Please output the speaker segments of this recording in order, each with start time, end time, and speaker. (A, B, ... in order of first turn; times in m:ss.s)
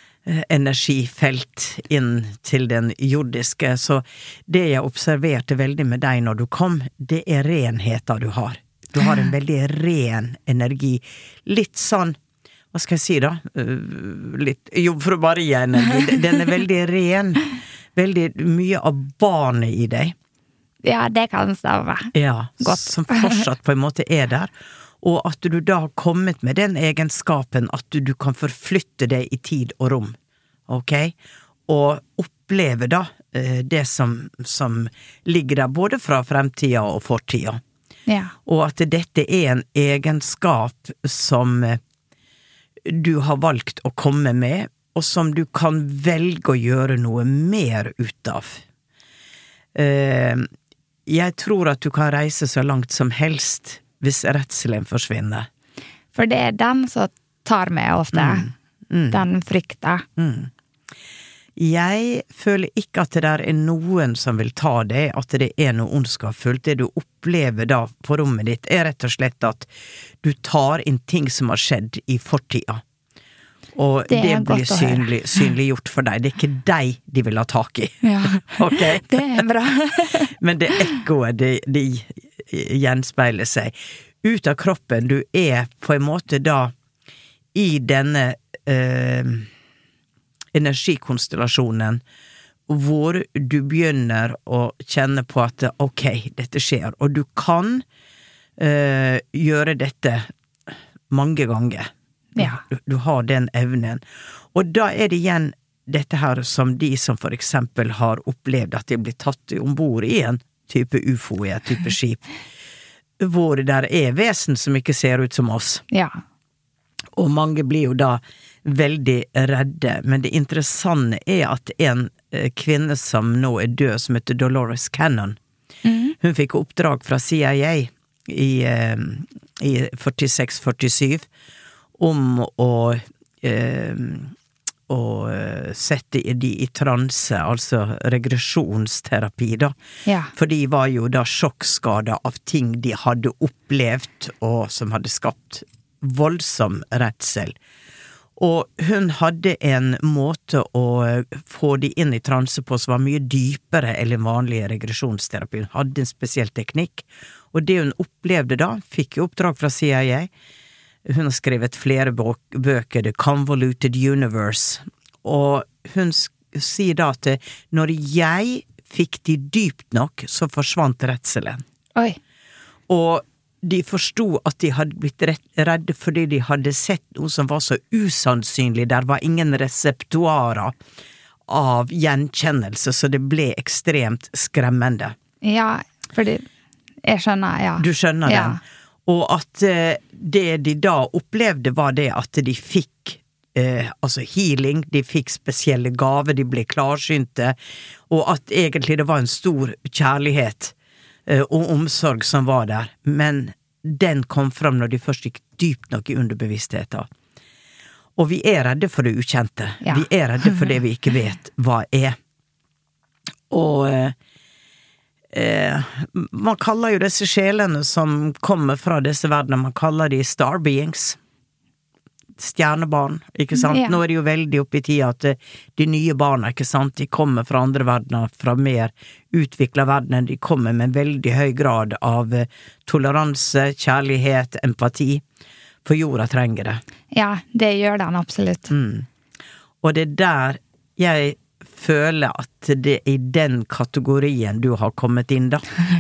0:00.3-0:12.2 A
0:12.7-0:20.2 A
0:20.8-0:23.4 B
0:22.2-0:24.5 A
0:25.0-0:30.2 A
0:30.7-0:31.2 A
0:31.7-0:37.6 A
0:38.1-0:38.3 B
0:38.5-0:41.8 A
0:42.8-0:48.6 A
0:49.8-0:50.5 A
0:51.1-0:55.5 A
0:56.2-0:58.5 B
0:58.1-0:59.3 A
0:59.1-1:00.0 B
1:00.2-1:00.5 A
1:01.6-1:09.7 A
1:10.2-1:12.8 A
1:13.8-1:19.4 A
1:14.1-1:15.5 B
1:18.0-1:20.3 B
1:20.4-1:26.7 A
1:27.5-1:29.5 A
1:30.5-1:32.0 A
1:32.7-1:37.8 A
1:38.6-1:40.3 A
1:41.1-1:52.2 A
1:53.2-1:55.8 A
1:55.9-1:56.2 B
1:57.2-2:05.4 A
2:05.8-2:06.2 B
2:06.2-2:11.3 A
2:12.0-2:14.3 A
2:14.9-2:19.8 A
2:20.1-2:20.3 B
2:20.4-2:27.6 A
2:28.4-2:40.3 A
2:41.1-2:51.6 A
2:52.9-3:00.8 A
3:01.5-3:05.2 A
3:05.4-3:06.5 B
3:07.0-3:08.6 B
3:07.8-3:17.6 A
3:18.1-3:20.7 A
3:21.3-3:27.1 A
3:28.2-3:32.2 A
3:33.5-3:34.2 A
3:35.3-3:41.2 A
3:42.4-3:55.2 A
3:43.6-3:44.0 B
3:55.8-3:56.8 A
3:57.1-3:58.7 B
3:58.7-3:59.1 A
3:59.8-4:05.7 A